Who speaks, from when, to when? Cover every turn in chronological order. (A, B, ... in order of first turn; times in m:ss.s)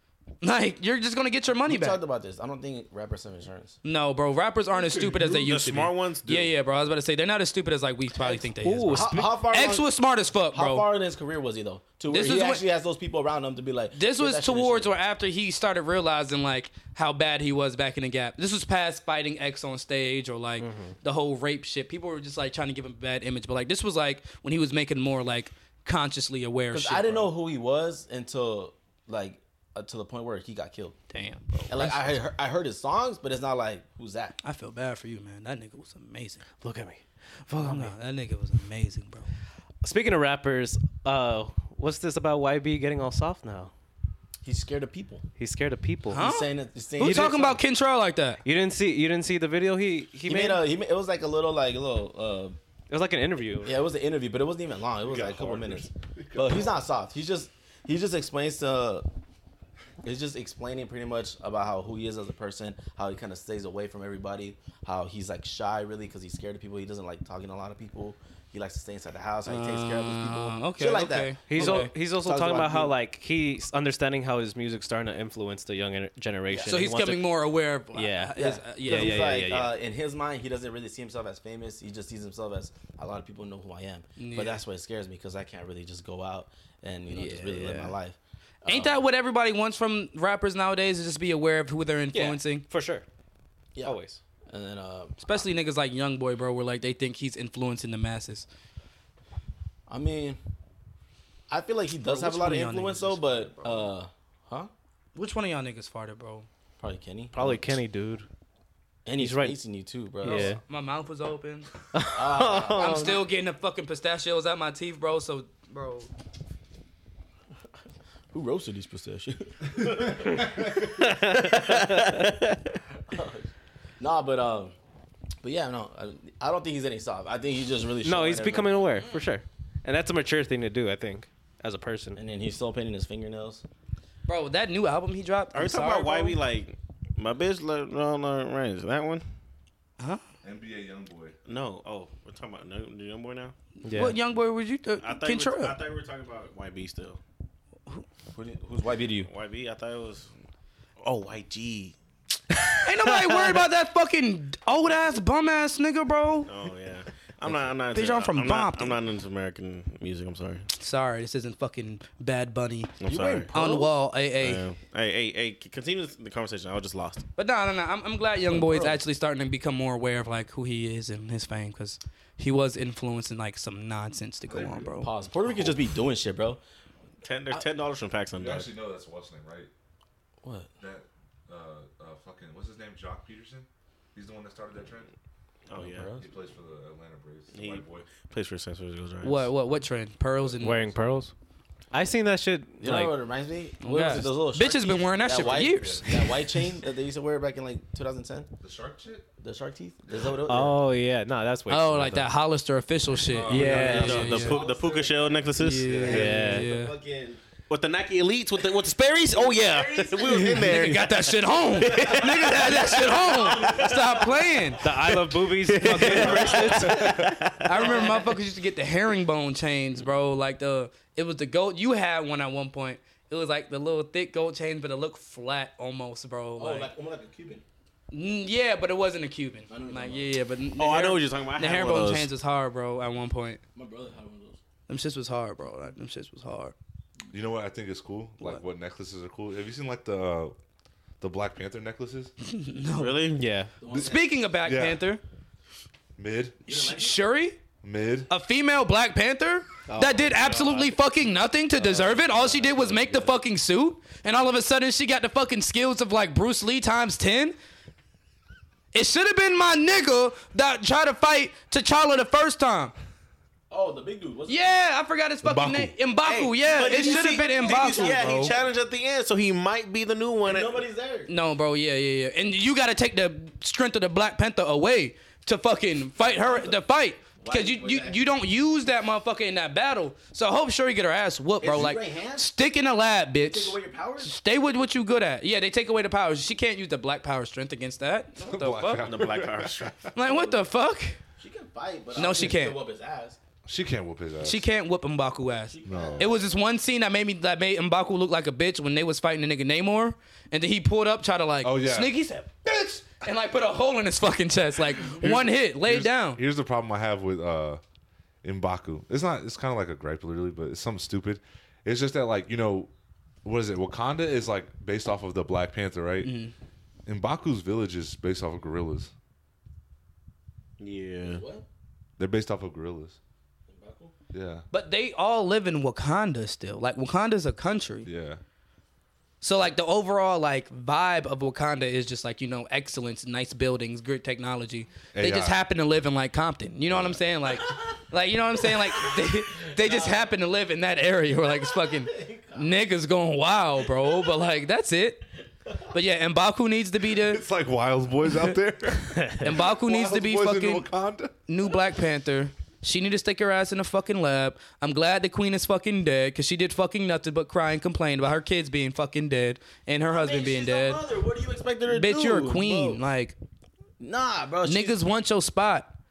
0:00.4-0:02.0 A
0:01.7-0:03.8 B
0:03.8-0:10.9 A
0:04.8-0:05.6 C
0:05.4-0:06.5 D
0:08.2-0:09.9 B
0:08.6-0:09.3 E
0:10.5-0:15.0 B
0:12.1-0:12.6 A
0:13.9-0:27.3 A
0:20.6-0:21.0 E
0:26.7-0:31.0 B
0:31.1-0:32.2 A
0:31.7-0:34.4 B
0:34.4-0:36.4 A
0:36.6-0:37.9 E
0:37.6-0:39.3 A
0:39.8-0:43.7 E
0:44.4-0:45.2 B
0:45.4-0:46.2 E
0:46.1-0:48.4 A
0:46.2-0:47.6 B
0:47.0-0:47.4 E
0:48.4-0:50.6 E
0:50.2-0:52.6 B
0:52.9-0:53.7 E
0:53.6-0:59.1 B
0:55.0-0:56.8 C
1:00.0-1:13.0 B
1:09.5-1:11.9 A
1:11.5-1:17.3 E
1:16.5-1:16.9 B
1:16.7-1:19.3 A
1:18.0-1:19.7 E
1:18.4-1:29.0 B
1:24.2-1:24.6 A
1:27.1-1:27.9 A
1:28.7-1:32.6 A
1:32.1-1:33.0 E
1:33.8-1:35.4 B
1:33.8-1:34.2 E
1:35.2-1:38.5 A
1:39.9-1:40.4 B
1:41.5-1:44.7 B
1:42.0-1:43.7 A
1:45.2-1:46.5 A
1:46.8-1:47.7 B
1:47.3-1:48.3 E
1:49.0-1:50.6 B
1:49.2-1:49.6 E
1:50.2-1:50.6 E
1:50.2-1:51.7 A
1:51.9-1:53.2 E
1:52.1-1:53.2 B
1:52.8-1:56.1 A
1:58.3-2:02.5 B
2:01.6-2:02.1 E
2:03.1-2:03.5 B
2:04.0-2:04.8 B
2:05.4-2:09.0 B
2:08.0-2:12.2 E
2:12.2-2:13.6 B
2:14.3-2:16.4 A
2:15.5-2:19.2 D
2:20.4-2:21.4 C
2:21.5-2:23.6 D
2:23.8-2:25.8 A
2:23.8-2:24.2 E
2:25.0-2:27.2 D
2:28.4-2:29.3 B
2:29.2-2:30.3 D
2:31.0-2:32.0 D
2:32.6-2:33.6 D
2:32.8-2:36.5 A
2:36.5-2:40.7 D
2:37.9-2:39.0 A
2:40.8-2:43.0 A
2:43.0-2:47.2 D
2:43.0-2:43.9 B
2:43.5-2:44.6 A
2:47.4-2:55.1 A
2:48.5-2:49.0 B
2:54.5-2:54.9 C
2:55.0-2:56.6 B
2:57.2-2:58.7 D
2:58.3-2:59.7 C
3:00.4-3:00.7 B
3:00.8-3:05.1 C
3:05.7-3:06.1 D
3:05.8-3:06.3 B
3:06.1-3:08.1 C
3:07.5-3:09.5 D
3:09.2-3:10.8 A
3:10.4-3:11.2 C
3:10.6-3:11.3 E
3:11.9-3:13.2 E
3:12.8-3:18.5 B
3:13.8-3:16.5 A
3:15.3-3:16.1 C
3:18.6-3:19.3 C
3:19.4-3:20.8 B
3:20.5-3:22.3 E
3:21.7-3:24.6 A
3:23.3-3:24.2 C
3:23.5-3:24.2 E
3:23.5-3:27.4 B
3:23.7-3:26.1 D
3:25.6-3:26.9 A
3:25.8-3:26.4 C
3:26.1-3:26.7 E
3:27.7-3:33.8 D
3:29.3-3:34.9 B
3:30.3-3:34.9 A
3:34.8-3:37.2 E
3:35.0-3:38.2 D
3:35.8-3:36.6 A
3:36.0-3:37.2 C
3:36.1-3:37.2 B
3:37.6-3:46.9 A
3:37.8-3:38.2 B
3:46.6-3:47.6 B
3:48.1-3:53.6 A
3:49.7-3:50.3 B
3:50.8-3:52.3 D
3:53.8-3:54.6 B
3:54.9-3:56.7 A
3:57.3-4:00.6 C
4:01.2-4:02.3 C
4:02.4-4:03.3 A
4:02.9-4:03.4 D
4:03.4-4:03.7 E
4:03.8-4:04.4 B
4:03.9-4:05.0 C
4:03.9-4:05.2 A
4:06.2-4:06.7 C
4:06.7-4:07.6 A
4:06.7-4:07.2 B
4:07.8-4:08.3 C
4:08.3-4:17.6 A
4:09.9-4:10.9 B
4:11.8-4:13.4 B
4:18.9-4:22.9 A
4:23.7-4:24.8 B
4:24.5-4:28.5 A
4:25.4-4:26.0 C
4:26.2-4:30.8 D
4:26.7-4:28.7 B
4:30.4-4:31.3 B
4:31.3-4:49.1 A
4:36.2-4:36.8 B
4:37.4-4:38.3 B
4:41.6-4:42.5 B
4:43.4-4:44.3 B
4:48.4-4:50.1 C
4:49.0-4:50.0 D
4:50.1-4:51.2 A
4:51.4-4:53.4 B
4:52.2-4:52.8 A
4:53.6-4:54.7 C
4:54.4-5:06.4 A
4:55.7-4:56.4 B
4:55.8-4:56.4 C
5:01.6-5:02.1 C
5:05.0-5:07.8 C
5:08.4-5:12.9 C
5:13.4-5:16.4 C
5:16.2-5:16.5 A
5:17.1-5:19.1 C
5:20.8-5:21.4 D
5:21.2-5:21.7 B
5:22.2-5:23.2 C
5:23.7-5:24.1 B
5:24.3-5:24.6 C
5:24.7-5:28.1 A
5:28.0-5:28.4 C
5:29.4-5:45.2 A
5:35.1-5:35.6 C
5:36.9-5:37.2 C
5:38.8-5:40.3 B
5:41.5-5:42.8 B
5:44.0-5:44.3 B
5:45.9-5:47.4 A
5:47.2-5:51.4 C
5:49.2-5:49.4 E
5:49.4-5:50.9 A
5:51.5-6:01.0 A
6:00.1-6:03.0 B
6:01.9-6:03.4 A
6:04.0-6:05.0 B
6:04.6-6:06.0 A